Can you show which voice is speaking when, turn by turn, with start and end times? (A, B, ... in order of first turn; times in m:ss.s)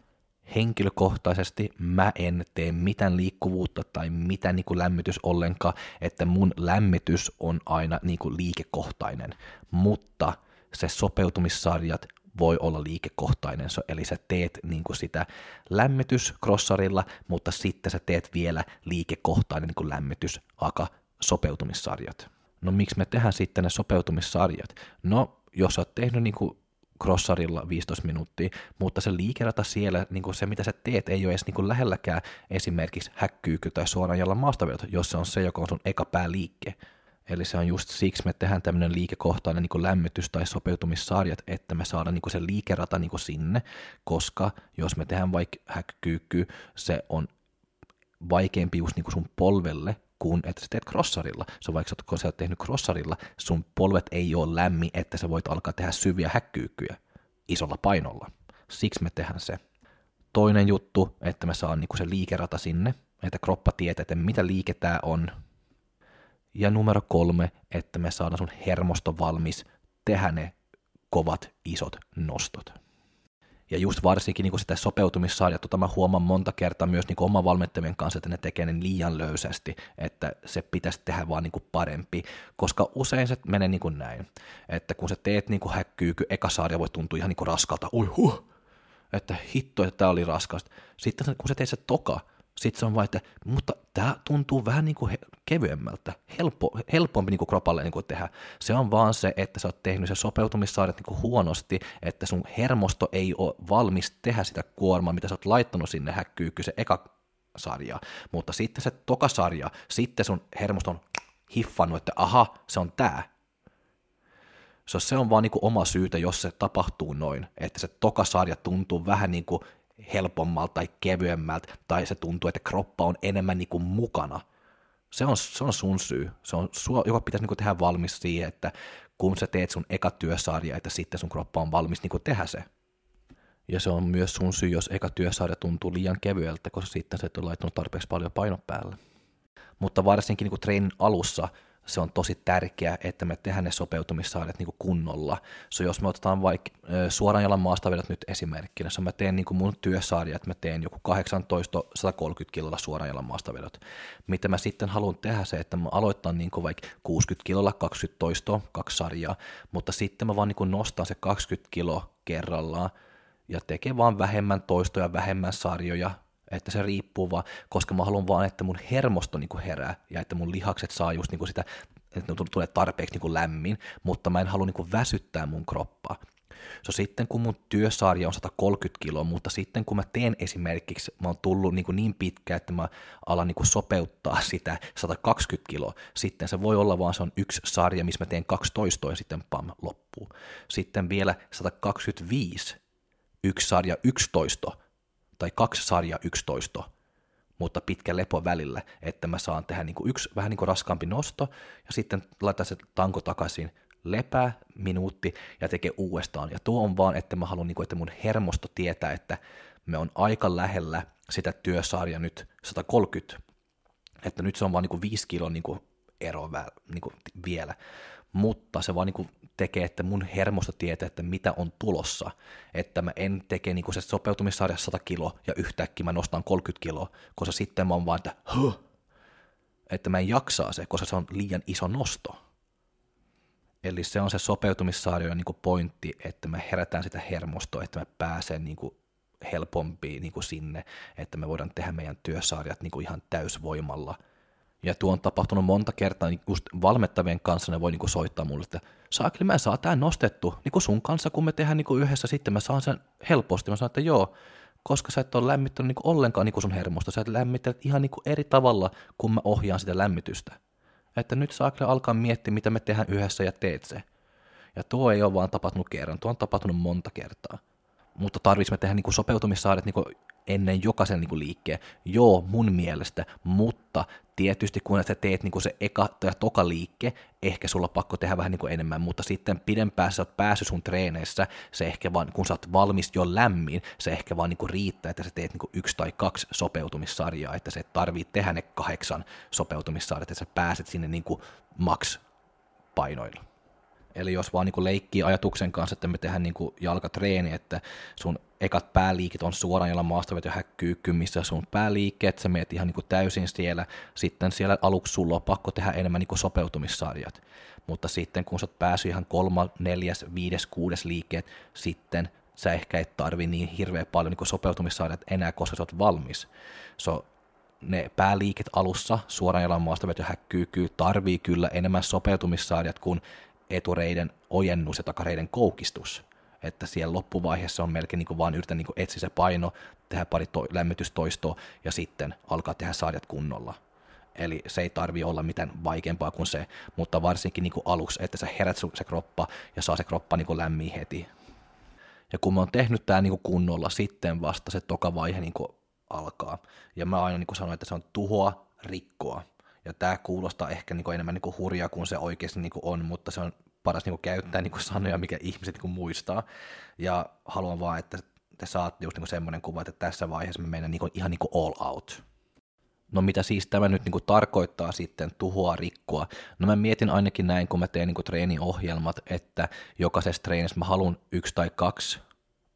0:00.5-0:47.3 A
0:48.2-0:57.0 A
0:57.5-0:59.6 A
1:00.3-1:05.3 A
1:06.5-1:10.6 A
1:11.1-1:12.8 A
1:13.7-1:28.4 A
1:29.1-1:53.3 A
1:54.9-2:04.4 A
2:05.1-2:12.7 A
2:13.7-2:19.0 A
2:19.8-2:42.9 A
2:43.5-2:56.2 A
2:56.8-3:12.8 A
3:13.4-3:14.8 A
3:15.4-3:16.9 A
3:17.6-3:33.4 A
3:34.2-3:37.8 A
3:38.3-3:48.8 A
3:49.9-3:52.4 A
3:53.8-4:04.2 A
4:04.8-4:14.3 A
4:14.8-4:20.6 A
4:21.2-4:24.0 A
4:24.8-4:27.6 A
4:28.2-4:52.2 A
4:53.0-4:53.4 A
4:54.2-5:17.3 A
5:17.8-5:33.8 A
5:34.4-5:41.3 A
5:42.3-5:56.4 A
5:57.0-6:02.2 A
6:03.1-6:12.2 A